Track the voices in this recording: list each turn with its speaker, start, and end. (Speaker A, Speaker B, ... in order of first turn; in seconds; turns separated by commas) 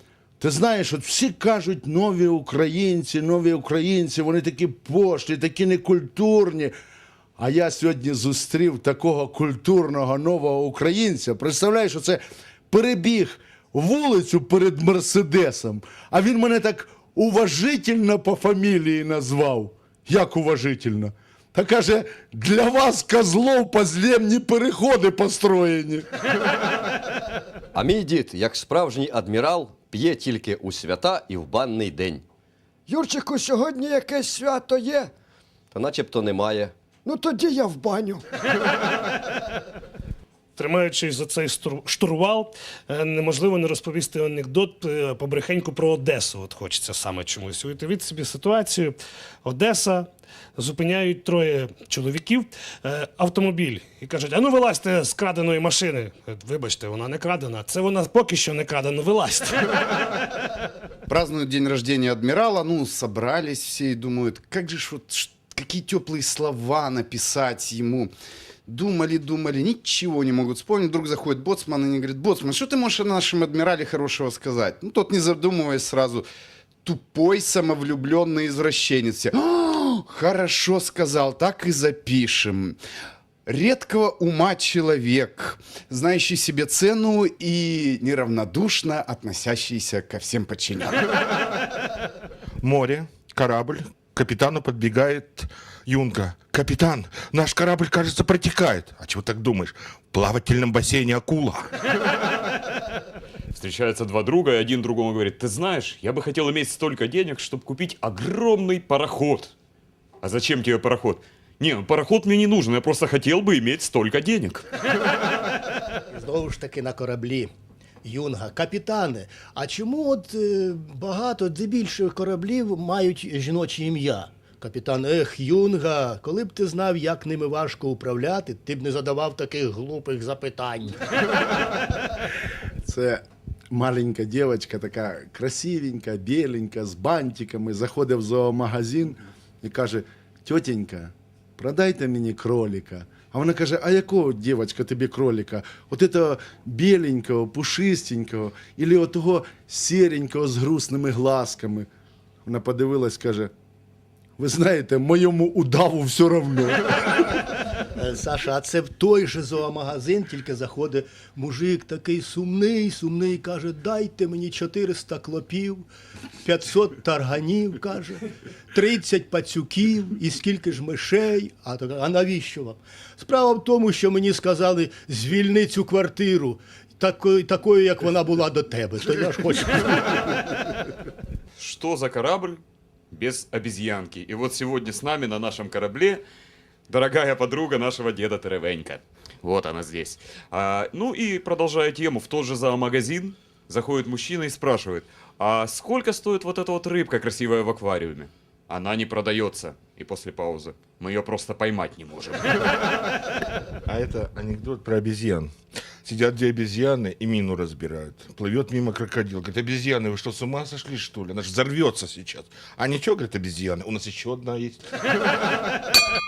Speaker A: 0.4-6.7, Speaker A: 7.4-26.1, Speaker B: 27.7-32.2, Speaker C: 32.9-35.1, Speaker B: 35.7-36.7, Speaker C: 37.0-38.2, Speaker D: 40.5-59.8, Speaker E: 61.1-68.1, Speaker E: 68.7-76.2, Speaker E: 76.8-82.8, Speaker E: 83.5-91.1, Speaker F: 92.6-101.7, Speaker G: 103.5-109.5, Speaker G: 110.2-114.7, Speaker H: 116.1-117.5, Speaker H: 118.0-131.0, Speaker A: 132.8-151.9, Speaker A: 152.4-153.5, Speaker A: 154.4-157.3, Speaker H: 157.9-165.8, Speaker H: 166.4-180.6, Speaker G: 181.6-186.2, Speaker G: 186.9-202.7, Speaker F: 203.8-214.9